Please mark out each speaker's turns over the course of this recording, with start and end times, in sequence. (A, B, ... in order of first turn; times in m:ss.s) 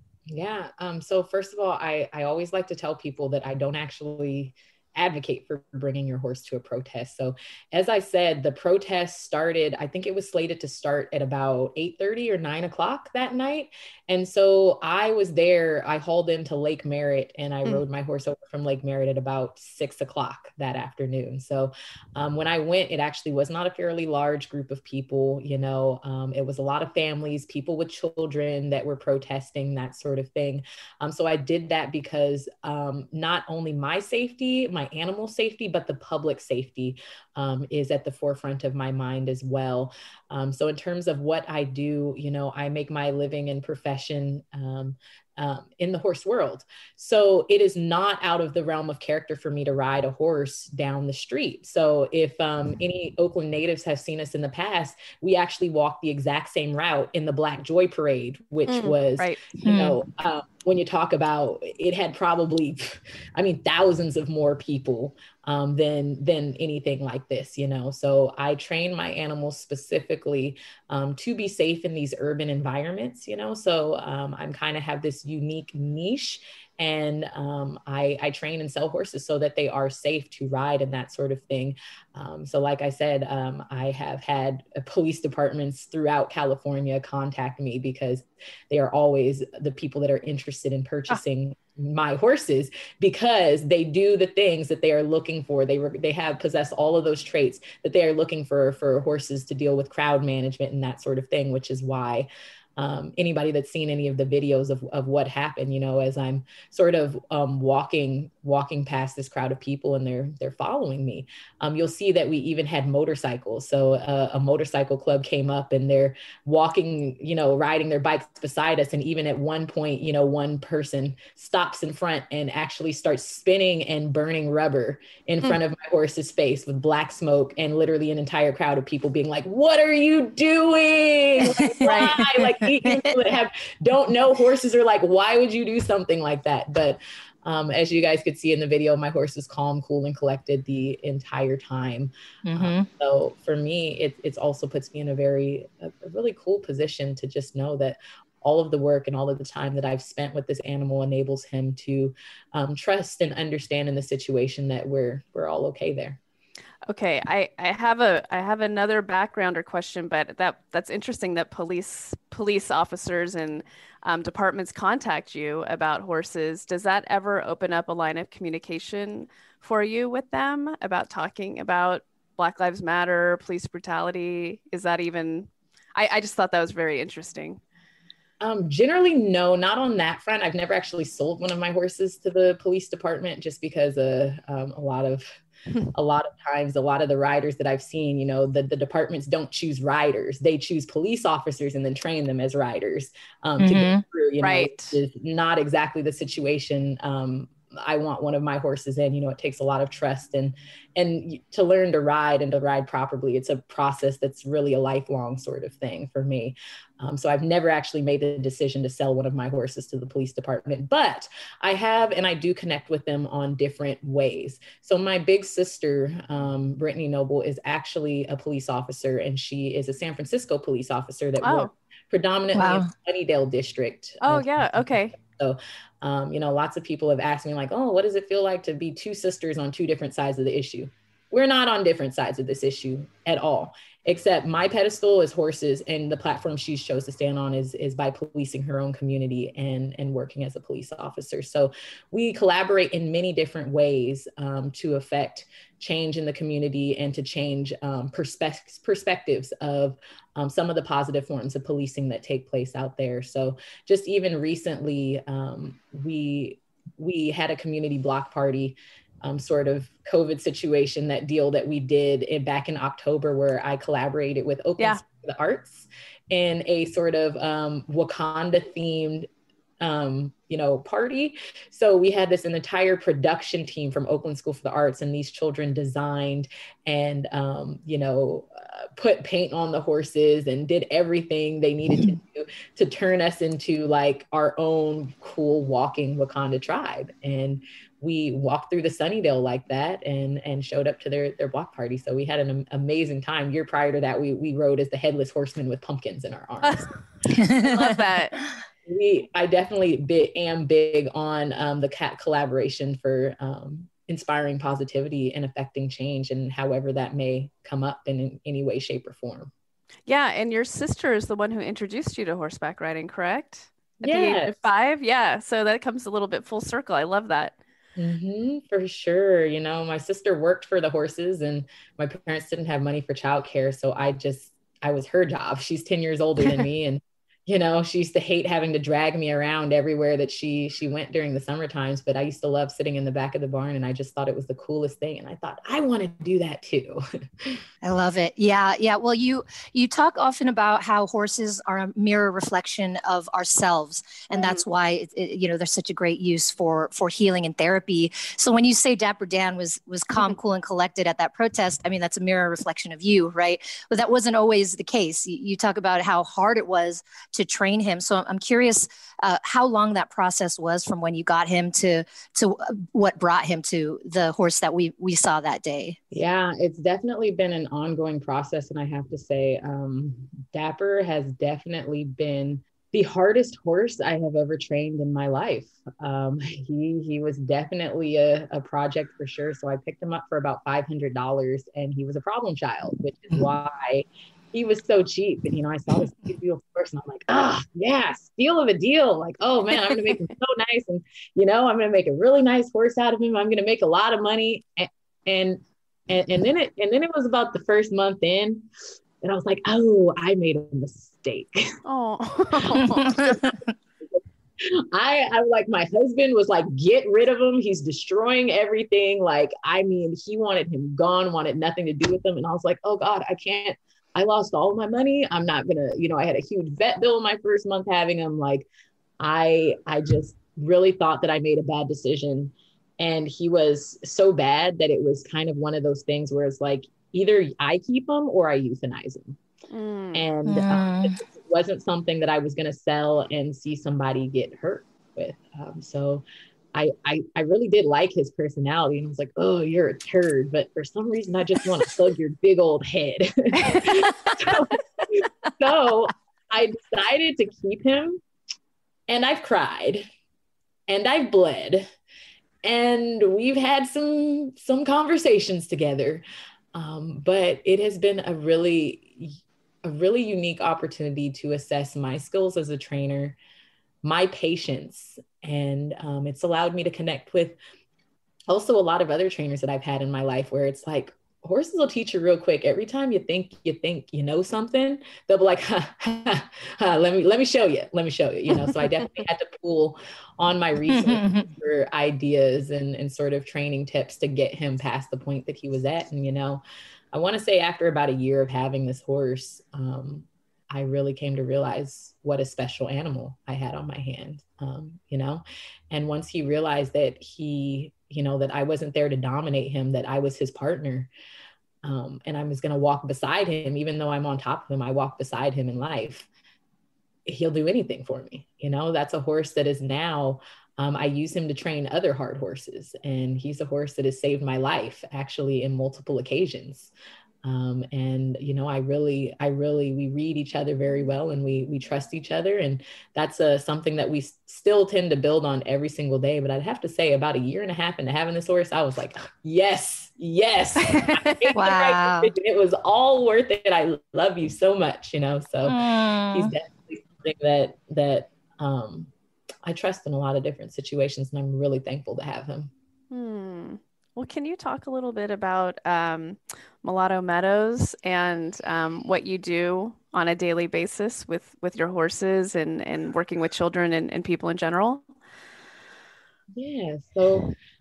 0:00.3-2:36.2 A
0:58.7-0:59.4 B
2:11.6-2:12.0 C
2:22.4-2:22.9 C
2:36.9-2:57.6 B
2:58.4-3:05.4 A
3:05.9-4:29.3 A
3:13.6-3:14.0 C
3:14.4-3:15.0 B
3:41.4-3:41.7 B
3:42.5-3:42.9 C
3:44.2-3:45.2 B
4:29.8-4:56.9 A
4:56.6-4:58.4 B
4:57.4-4:57.7 C
4:58.8-5:09.5 A
5:10.1-5:17.6 B
5:14.0-5:14.7 A
5:18.0-5:37.6 A
5:37.8-6:06.0 C
5:44.3-5:44.6 B
6:06.1-6:38.7 A
6:39.2-6:41.8 A
6:41.8-6:43.4 B
6:42.6-6:43.4 A
6:44.1-6:58.6 A
6:59.2-7:09.4 A
7:09.7-7:10.2 B
7:10.1-7:28.2 A
7:10.4-7:11.2 C
7:29.1-7:30.1 A
7:30.9-7:31.9 A
7:32.6-7:43.4 A
7:44.0-7:47.6 A
7:48.5-8:21.1 A
8:01.1-8:01.4 C
8:21.8-8:26.3 A
8:27.2-8:36.9 A
8:37.4-8:59.1 A
8:50.9-8:51.5 B
8:51.5-8:52.3 C
8:55.6-8:56.5 C
8:59.6-9:02.7 A
9:03.1-9:15.0 B
9:16.5-9:17.5 A